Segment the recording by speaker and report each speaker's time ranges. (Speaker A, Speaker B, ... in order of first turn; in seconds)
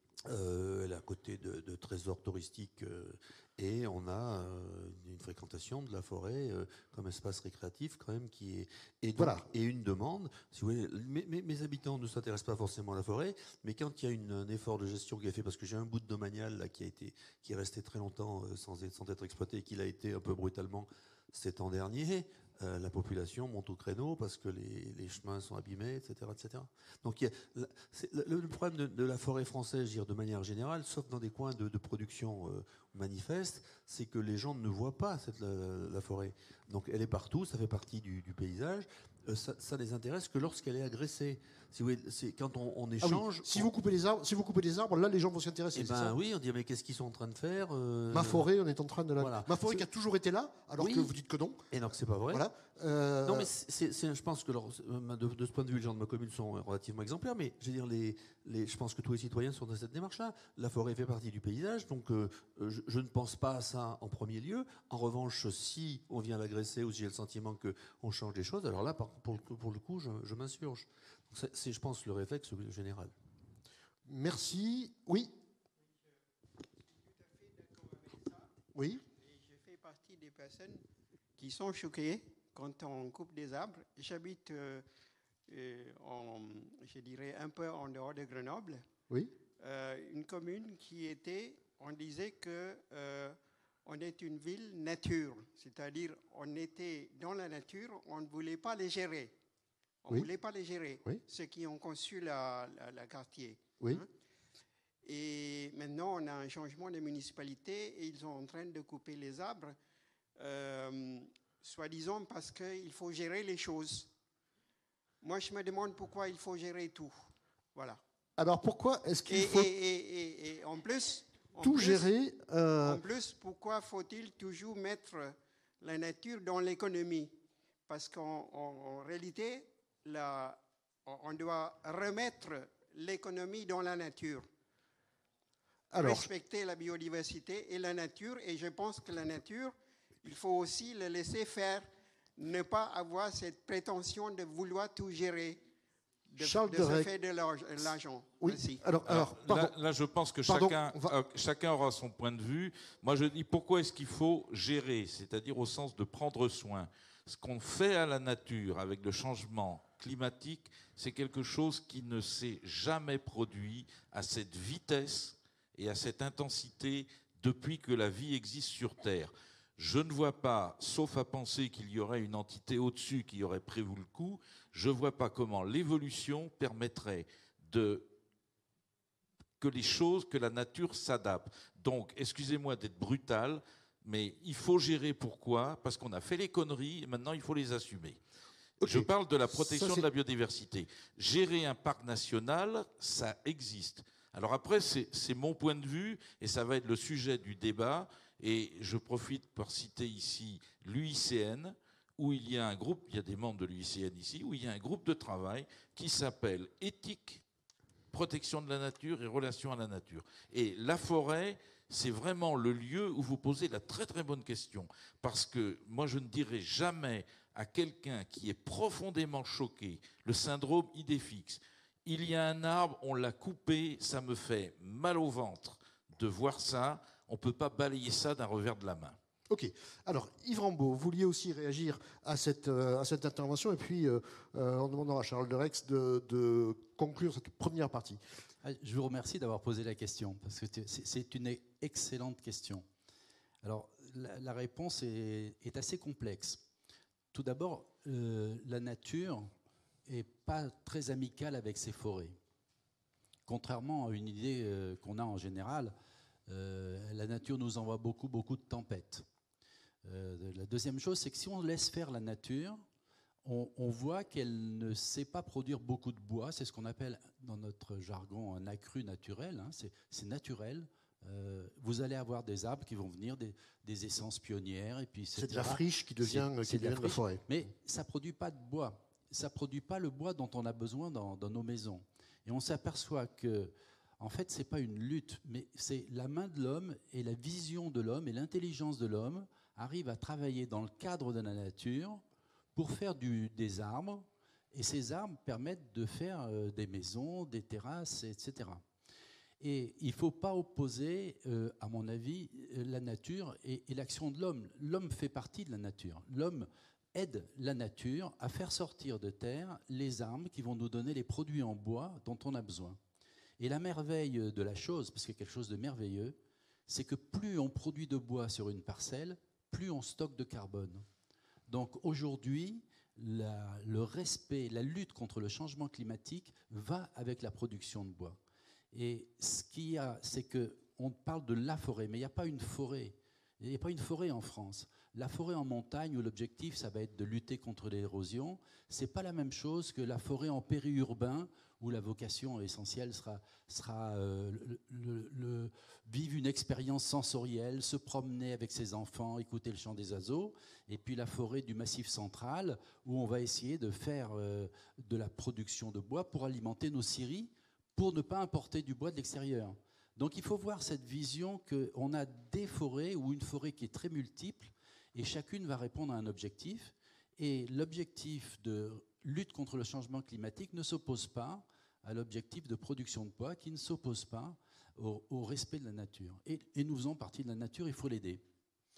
Speaker A: 0.2-43.7, 45.8-48.5, 49.2-49.8, 50.8-51.1, 51.7-52.4, 53.2-73.1
Speaker B: 9.2-9.5, 43.0-46.2, 48.1-51.6, 52.3-53.5, 74.1-75.3, 78.7-79.0, 118.4-119.7, 121.6-123.0, 135.9-136.3, 146.4-147.1, 148.4-149.7, 150.5-151.1, 188.8-190.1, 229.5-238.2, 275.4-277.4
Speaker C: 76.8-78.5, 79.1-80.8, 81.4-84.8, 85.5-88.8, 89.6-99.3, 100.0-104.1, 105.0-109.8, 110.4-114.1, 115.2-118.0, 119.3-122.1, 122.8-127.3, 127.9-134.5, 135.9-145.6, 146.3-148.8
Speaker D: 149.1-178.1, 179.6-188.2, 188.8-207.4, 208.1-229.2
Speaker E: 238.6-242.9, 243.6-246.6, 247.3-249.5, 250.1-252.4, 253.5-256.0, 256.5-259.3, 260.1-262.8, 263.4-292.2, 292.8-298.8, 299.6-313.0, 313.6-316.4, 316.9-321.1, 321.7-328.4, 328.9-378.4